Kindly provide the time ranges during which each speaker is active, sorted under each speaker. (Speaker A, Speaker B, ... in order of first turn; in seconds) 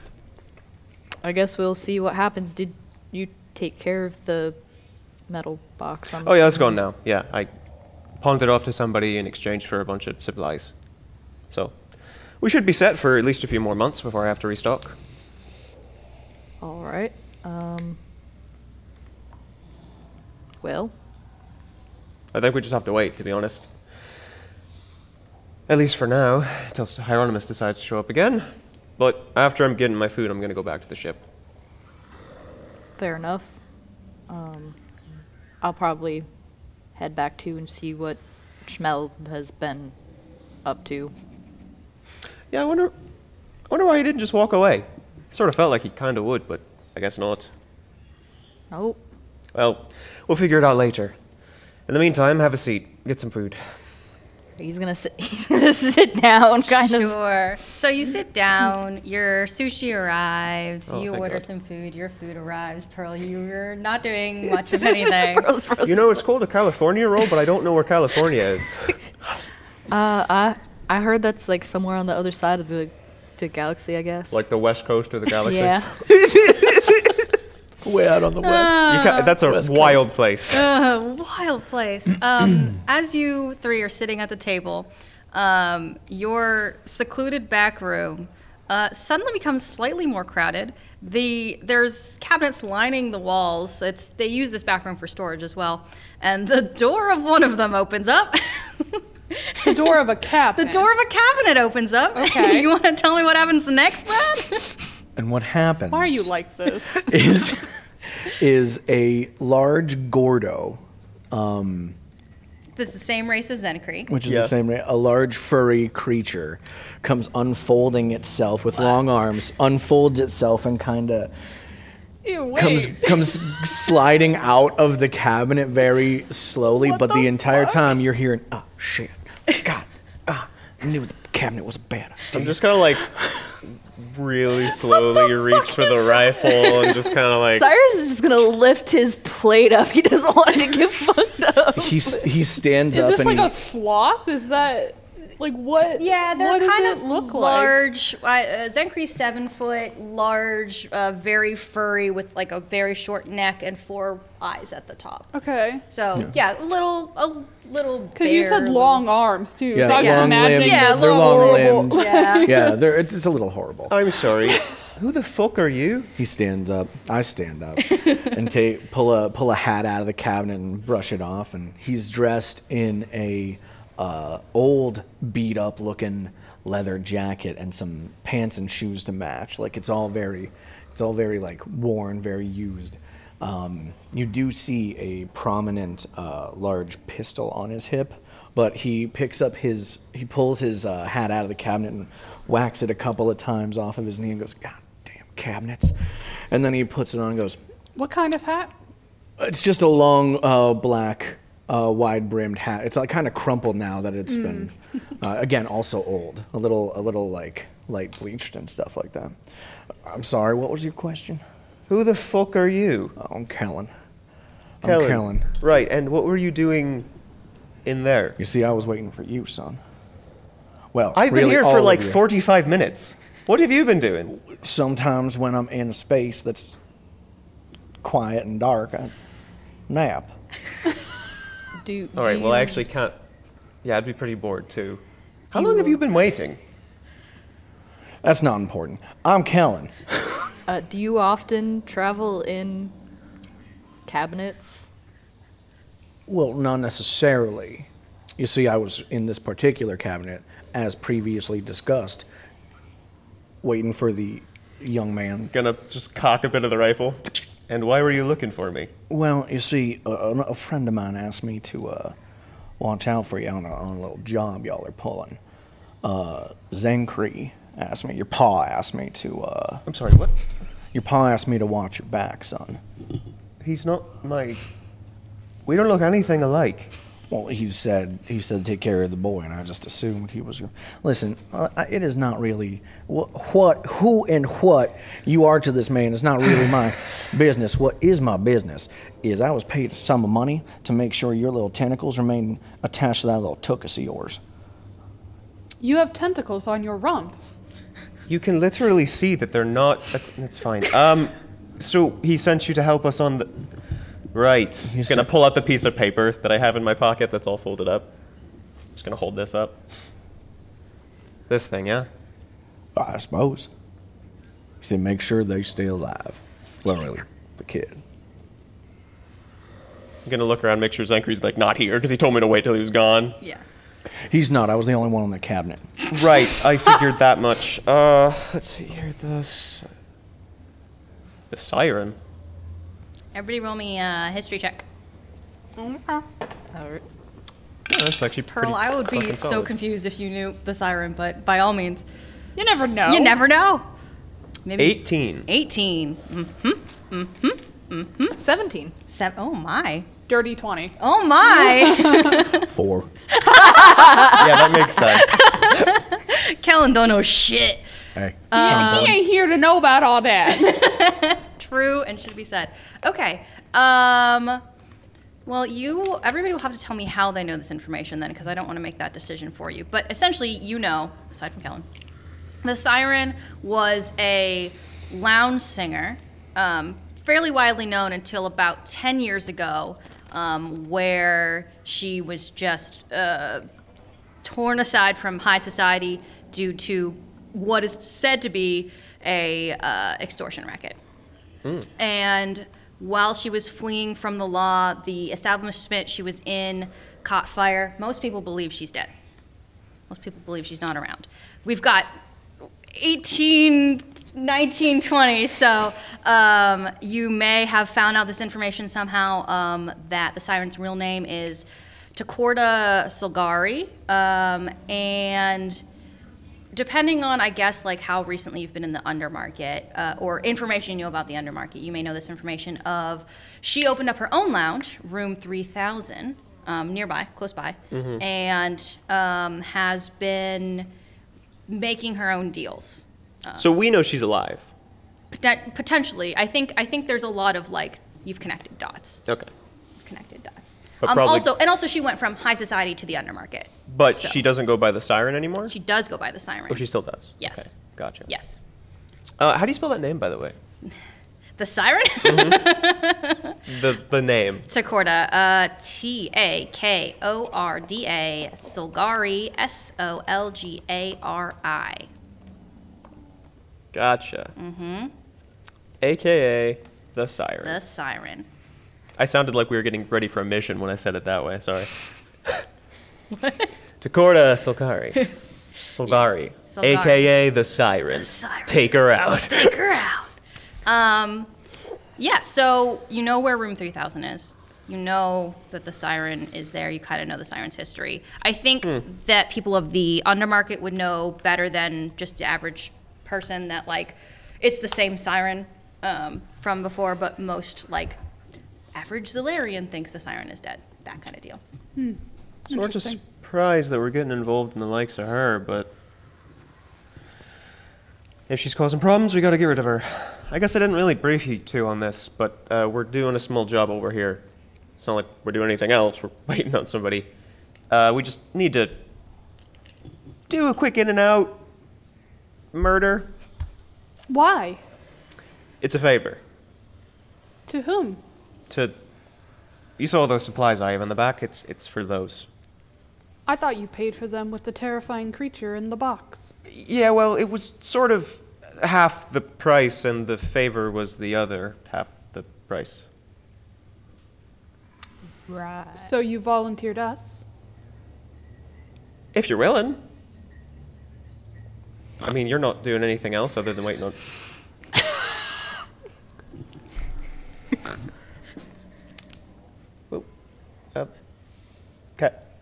Speaker A: 1.2-4.6, 5.3-6.8, 16.6-18.0, 20.6-20.9, 33.0-33.6, 34.3-34.8, 35.6-36.3, 37.0-40.0, 40.6-41.1, 48.7-49.0, 54.6-57.2, 64.6-66.2, 69.9-74.4, 75.4-77.1, 137.4-142.3, 231.8-232.9, 235.6-236.0, 240.7-242.9, 244.1-244.9, 336.8-337.0, 348.4-348.9
Speaker B: 6.2-7.5, 8.2-10.7, 11.5-11.8, 12.4-15.0, 22.3-23.7, 25.7-31.2, 42.5-42.9, 43.7-47.5, 49.5-51.2, 51.9-53.6, 60.9-61.5, 65.8-68.9, 74.3-76.0, 78.9-80.7, 114.3-114.5, 132.3-133.1, 133.6-137.7, 163.9-166.1, 211.9-213.1, 214.8-217.1, 217.8-218.4, 221.2-224.4, 232.2-233.2, 233.8-236.6, 255.5-258.9, 269.9-270.3, 273.6-274.6, 275.7-276.9, 298.3-303.5, 304.3-308.1, 308.9-309.8, 311.5-312.1, 320.2-323.4, 326.1-329.9, 331.5-332.2, 337.9-339.7, 344.8-345.5, 354.3-355.5, 427.9-428.2, 433.6-434.7, 439.3-439.5, 441.0-441.5, 443.9-445.7, 446.7-448.3, 449.4-450.6, 452.2-452.6, 453.7-454.7, 463.9-464.5, 466.0-467.8, 469.2-471.9, 474.0-475.3, 475.9-479.8, 502.7-505.9, 508.5-514.4, 515.0-517.3, 517.9-519.0, 520.5-521.6, 522.7-523.3, 525.8-526.4, 530.0-532.5, 536.7-543.1, 549.3-550.0, 552.2-554.2
Speaker C: 56.7-65.5, 78.4-79.3, 80.5-104.8, 112.8-114.1, 146.0-155.3, 155.9-159.1, 159.9-162.7, 333.3-334.8, 338.5-342.1, 343.1-343.9, 344.6-348.4, 349.1-350.1, 351.0-352.7, 353.3-357.9, 358.5-359.2, 360.6-364.6, 365.4-371.9, 372.6-383.7, 384.4-391.0, 392.0-399.1, 400.1-402.1, 402.9-415.8, 416.7-430.9, 431.7-433.7, 435.3-439.2, 440.0-444.4, 445.7-447.7, 448.3-448.6, 451.6-453.6, 454.7-462.1, 464.6-465.1, 467.5-468.5, 473.4-473.7, 476.1-477.3, 478.1-480.3, 480.9-481.5, 482.2-498.2, 498.9-501.6
Speaker D: 77.8-80.1, 105.2-106.3, 106.9-112.0, 114.1-121.3, 122.5-132.6, 141.8-143.6, 159.7-164.0, 166.2-197.6, 199.4-209.4, 210.0-211.4, 213.2-213.9, 214.8-215.6, 218.4-219.8, 220.9-222.2, 224.5-226.8, 228.0-229.1, 229.9-230.3, 238.2-240.4, 246.3-252.3, 253.6-255.5, 259.1-262.1, 262.8-265.4, 266.0-269.9, 270.9-272.8, 277.3-294.4, 304.9-305.3, 313.0-313.7, 314.8-318.0, 324.3-325.9, 352.7-353.1, 358.2-359.2
Speaker E: 99.7-100.9, 102.2-102.7, 105.9-107.1, 122.2-123.3, 126.8-127.8, 142.9-147.8, 155.3-155.8, 158.2-162.8, 198.0-198.7, 204.3-204.7, 295.8-297.4, 335.8-336.3, 342.6-343.4, 350.3-352.5, 358.6-360.9, 502.0-503.2, 524.3-524.8, 527.7-528.2, 533.5-536.5, 546.0-547.5